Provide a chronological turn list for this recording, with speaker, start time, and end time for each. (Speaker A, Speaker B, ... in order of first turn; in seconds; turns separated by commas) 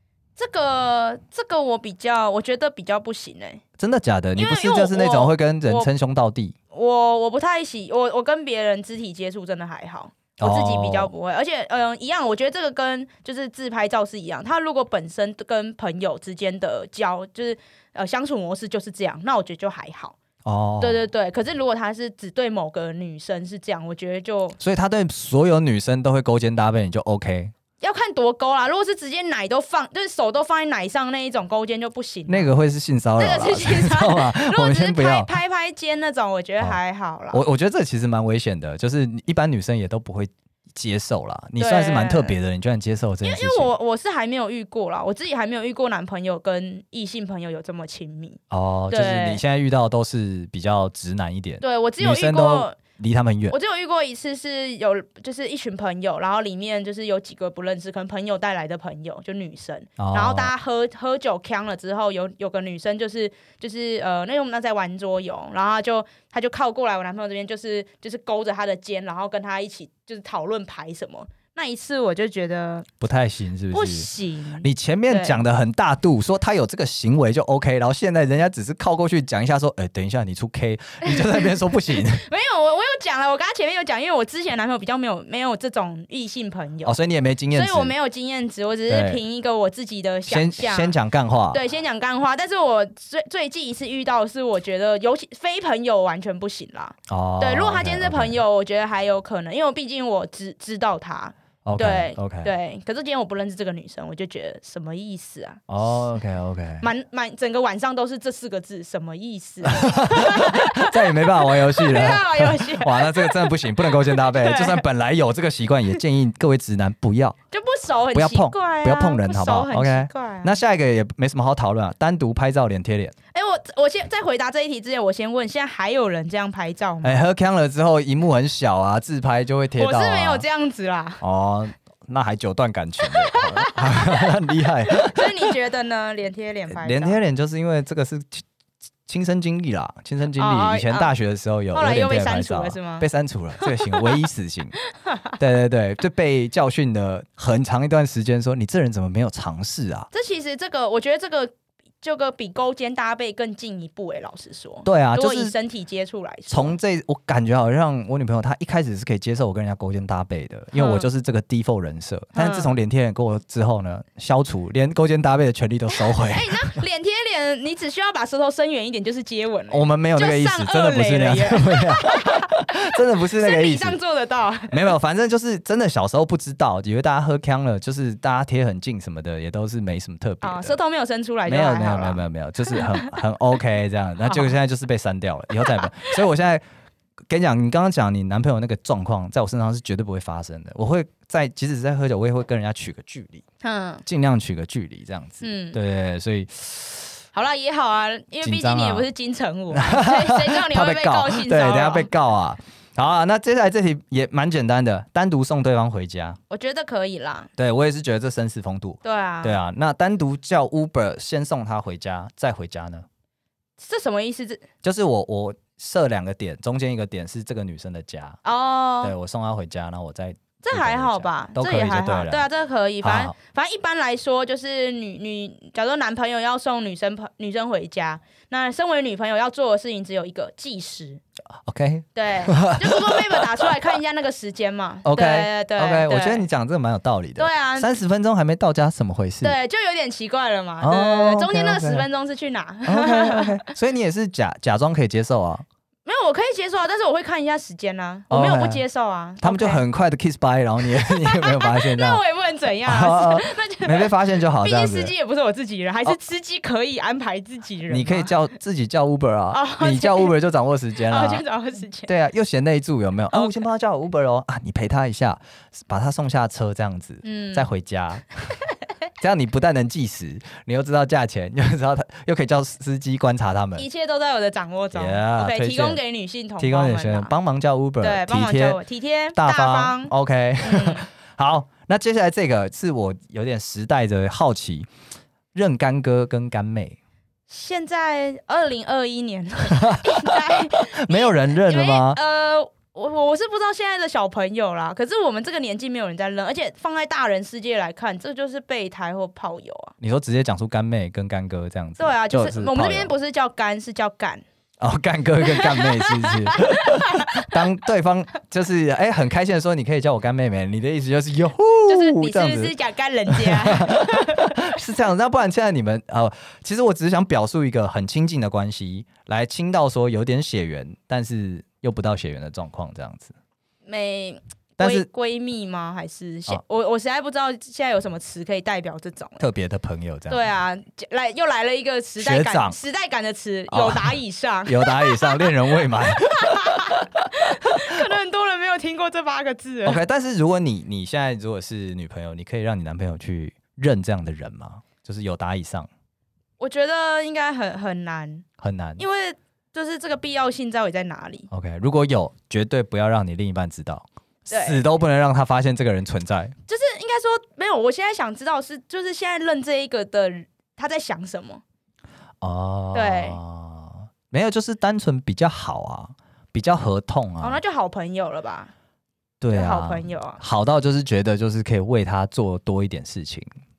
Speaker A: 0.4-3.6, Speaker B: 3.8-6.5, Speaker A: 4.3-5.9, Speaker A: 6.7-20.2, Speaker B: 10.4-11.1, Speaker B: 20.4-21.0, Speaker A: 20.8-24.6, Speaker B: 24.6-27.5, Speaker A: 27.8-32.5, Speaker B: 32.3-35.3, Speaker A: 33.2-37.4, Speaker B: 37.3-43.7, Speaker A: 41.6-42.4, Speaker A: 43.2-49.4, Speaker B: 48.5-53.5, Speaker A: 51.6-52.8, Speaker A: 53.5-72.9, Speaker B: 60.0-60.5, Speaker B: 73.0-74.1, Speaker A: 73.7-75.4, Speaker B: 74.6-82.2, Speaker A: 81.1-86.9, Speaker B: 86.8-87.9, Speaker A: 87.5-90.9, Speaker B: 88.9-89.2, Speaker B: 90.3-91.6, Speaker A: 91.5-105.6, Speaker B: 97.1-98.4, Speaker B: 101.6-102.5, Speaker B: 105.7-106.9, Speaker A: 106.8-114.8, Speaker B: 109.6-117.4, Speaker A: 117.5-120.5, Speaker B: 118.1-123.1, Speaker A: 123.3-127.2, Speaker B: 127.0-130.4, Speaker A: 129.8-131.2, Speaker B: 131.2-135.5, Speaker A: 133.1-134.3, Speaker A: 134.9-137.2, Speaker B: 136.7-138.4, Speaker B: 139.1-144.8, Speaker A: 140.4-141.1, Speaker A: 141.7-143.1, Speaker A: 143.6-144.1, Speaker A: 145.0-145.3, Speaker B: 145.4-150.1, Speaker A: 150.1-156.8, Speaker B: 154.8-155.5, Speaker B: 156.5-166.8, Speaker A: 160.7-161.1, Speaker A: 162.3-162.7, Speaker A: 165.9-174.9, Speaker B: 169.7-174.0, Speaker B: 174.7-180.8, Speaker A: 180.4-183.1, Speaker B: 181.4-186.6, Speaker A: 184.2-184.5, Speaker B: 187.3-193.4, Speaker A: 193.6-194.0, Speaker B: 194.1-197.1, Speaker A: 195.4-195.8, Speaker A: 197.3-202.1, Speaker B: 198.4-199.1, Speaker B: 199.7-206.4, Speaker A: 206.5-207.5, Speaker B: 207.6-213.1, Speaker A: 209.0-209.6, Speaker A: 213.8-214.6, Speaker B: 214.8-218.4, Speaker A: 218.4-219.1, Speaker B: 219.0-222.5, Speaker A: 220.6-231.2, Speaker B: 223.0-223.3, Speaker B: 231.6-233.7, Speaker A: 232.1-236.4, Speaker B: 235.0-239.6, Speaker A: 237.4-237.9, Speaker A: 239.4-243.7, Speaker B: 240.8-242.1, Speaker B: 242.8-245.6, Speaker A: 246.1-249.8, Speaker B: 248.3-248.8, Speaker B: 249.4-252.2, Speaker A: 250.9-258.3, Speaker B: 252.8-255.1, Speaker B: 257.9-261.4, Speaker A: 259.5-260.3, Speaker A: 261.1-262.1, Speaker B: 262.0-268.3, Speaker A: 263.3-263.6, Speaker A: 267.2-267.7, Speaker B: 269.2-273.9, Speaker A: 273.8-277.3, Speaker B: 274.9-276.0, Speaker B: 276.6-278.8, Speaker A: 278.0-281.1, Speaker B: 279.3-284.9, Speaker B: 285.5-287.0, Speaker A: 287.5-299.9, Speaker B: 289.7-292.2, Speaker B: 300.0-303.1, Speaker A: 302.0-304.4, Speaker B: 304.8-312.7, Speaker A: 305.4-307.6, Speaker A: 311.9-314.6, Speaker B: 313.3-323.3, Speaker A: 323.9-329.4, Speaker B: 324.8-325.1, Speaker B: 329.4-330.4, Speaker A: 330.3-340.0, Speaker B: 332.2-332.8, Speaker B: 333.7-338.1, Speaker B: 339.8-345.9, Speaker A: 346.6-348.4, Speaker B: 348.6-349.0, Speaker A: 349.0-351.5, Speaker B: 351.5-356.5, Speaker A: 354.5-354.8, Speaker A: 356.7-361.6, Speaker B: 362.4-367.6, Speaker A: 362.9-363.4, Speaker A: 367.4-368.7, Speaker B: 369.4-373.5, Speaker A: 369.5-370.4